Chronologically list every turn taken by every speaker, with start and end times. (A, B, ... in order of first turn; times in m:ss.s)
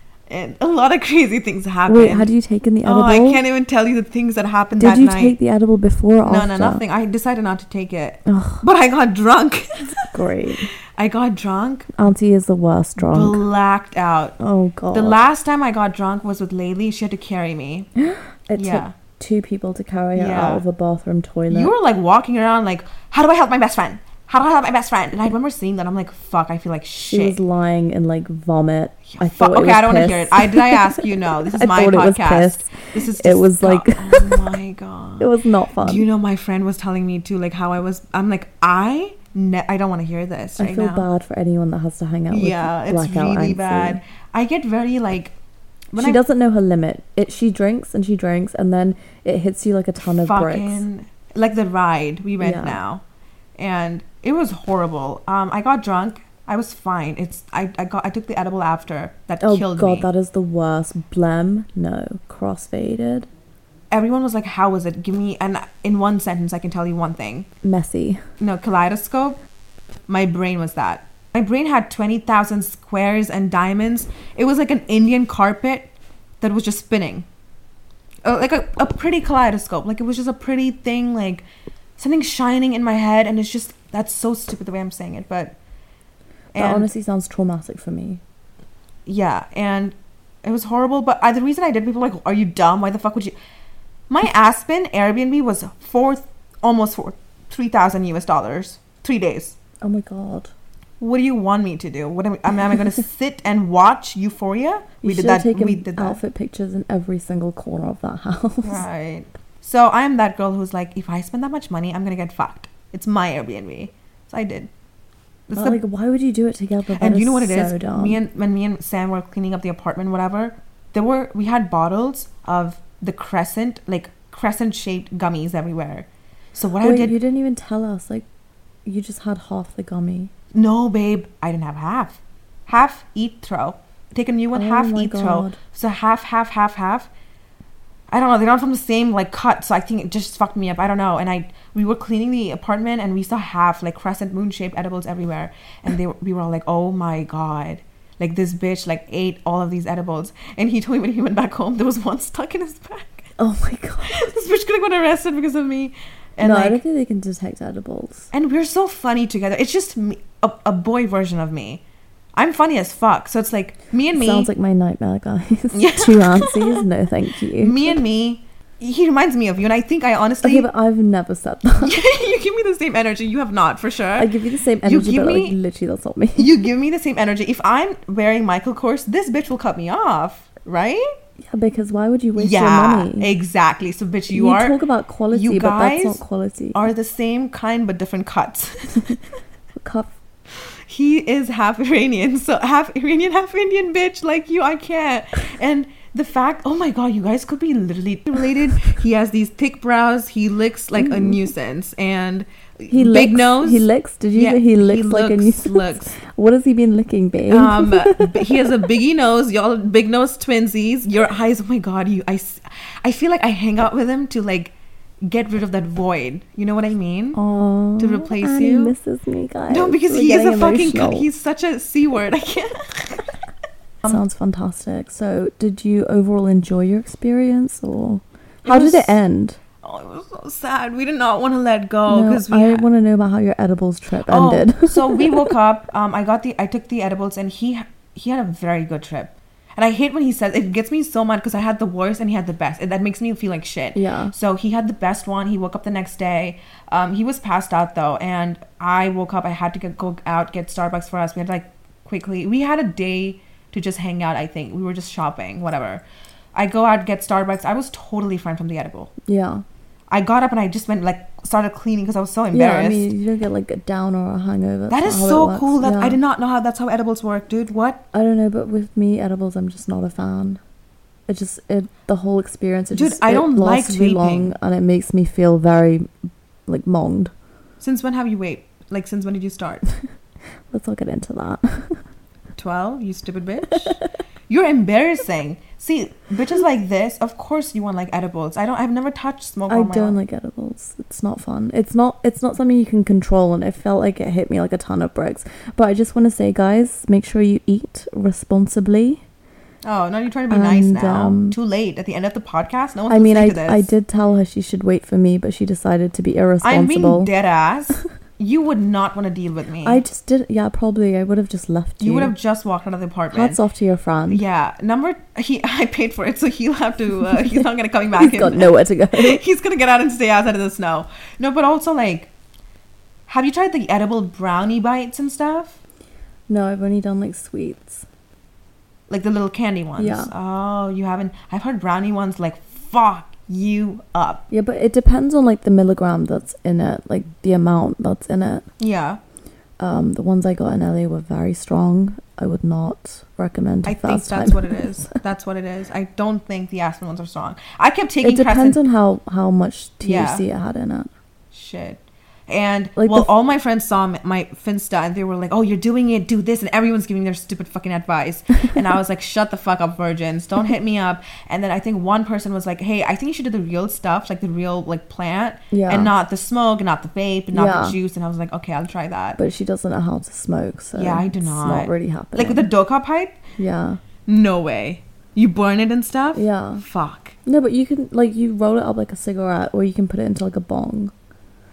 0:00.3-0:02.3 A
0:01.9-0:03.4 B
0:02.8-0:05.4 A
0:04.8-0:06.8 B
0:06.2-0:09.9 A
0:08.3-0:08.6 B
0:10.1-0:10.7 B
0:10.9-0:11.9 A
0:11.9-0:13.4 B
0:13.0-0:14.4 A
0:14.4-0:15.2 B
0:14.9-0:17.9 A
0:18.0-0:21.7 B
0:18.5-0:19.0 A
0:20.1-0:20.6 A
0:21.5-0:27.4 A
0:27.1-0:34.5 B
0:29.1-0:35.3 A
0:35.2-0:36.0 B
0:35.8-0:41.1 A
0:40.6-0:44.0 B
0:42.3-0:45.3 A
0:45.9-0:46.2 A
0:46.0-0:50.8 B
0:50.0-0:53.0 A
0:52.4-0:52.8 B
0:53.6-1:00.1 A
0:59.4-1:03.3 B
1:03.9-1:07.5 A
1:07.6-1:08.2 B
1:08.4-1:09.4 A
1:10.1-1:17.2 A
1:18.2-1:21.4 A
1:22.0-1:25.6 A
1:26.5-1:26.9 A
1:26.6-1:28.2 B
1:29.0-1:33.3 A
1:34.1-1:39.6 A
1:39.8-1:40.5 B
1:41.0-1:46.2 A
1:45.0-1:48.8 B
1:48.6-1:54.7 A
1:55.5-1:55.8 A
1:55.5-1:58.2 B
1:56.9-2:07.2 A
2:06.8-2:08.2 B
2:08.8-2:10.3 B
2:10.5-2:17.1 A
2:14.5-2:15.6 B
2:18.1-2:33.3 A
2:33.4-2:34.2 B
2:34.0-2:36.8 A
2:36.4-2:38.3 B
2:38.3-2:41.8 A
2:42.4-2:44.5 A
2:44.1-2:48.0 B
2:45.7-2:46.9 A
2:47.6-2:50.7 A
2:50.4-2:52.0 B
2:51.8-2:55.6 A
2:54.2-2:56.5 B
2:56.4-3:01.0 A
3:01.4-3:03.3 B
3:02.4-3:04.8 A
3:04.3-3:06.8 B
3:05.3-3:09.0 A
3:09.8-3:10.1 B
3:10.9-3:26.2 A
3:21.0-3:21.4 B
3:22.9-3:28.3 B
3:27.5-3:37.4 A
3:37.3-3:41.3 B
3:38.0-3:38.9 A
3:39.7-3:43.2 A
3:44.0-3:49.6 B
3:48.6-3:49.2 A
3:49.8-3:52.9 A
3:52.1-3:55.3 B
3:54.3-4:16.0 A
4:03.9-4:04.3 B
4:16.5-4:19.1 A
4:19.3-4:19.6 B
4:20.1-4:23.1 A
4:22.5-4:26.2 B
4:24.9-4:28.0 A
4:28.1-4:30.6 B
4:31.3-4:36.1 B
4:32.9-4:34.5 A
4:36.7-4:37.3 B
4:37.8-4:39.8 A
4:40.7-4:42.0 B
4:42.6-4:50.2 A
4:49.7-4:59.2 B
4:59.8-5:03.9 A
5:00.5-5:01.6 B
5:03.1-5:07.3 B
5:06.6-5:10.0 A
5:09.8-5:12.3 B
5:12.0-5:13.6 A
5:13.3-5:14.4 B
5:14.3-5:22.3 A
5:18.2-5:19.4 B
5:23.3-5:25.8 A
5:26.5-5:28.0 B
5:29.1-5:34.4 A
5:30.0-5:30.3 B
5:34.5-5:38.6 B
5:38.8-5:39.2 A
5:39.8-5:44.8 B
5:43.8-5:48.8 A
5:48.2-5:51.1 B
5:50.0-5:50.4 A
5:51.5-6:09.4 A
5:53.0-5:53.3 B
6:05.7-6:06.1 B
6:07.5-6:08.0 B
6:09.4-6:12.7 B
6:10.9-6:13.4 A
6:13.6-6:14.0 B
6:14.2-6:17.4 A
6:16.3-6:16.8 B
6:17.4-6:21.1 B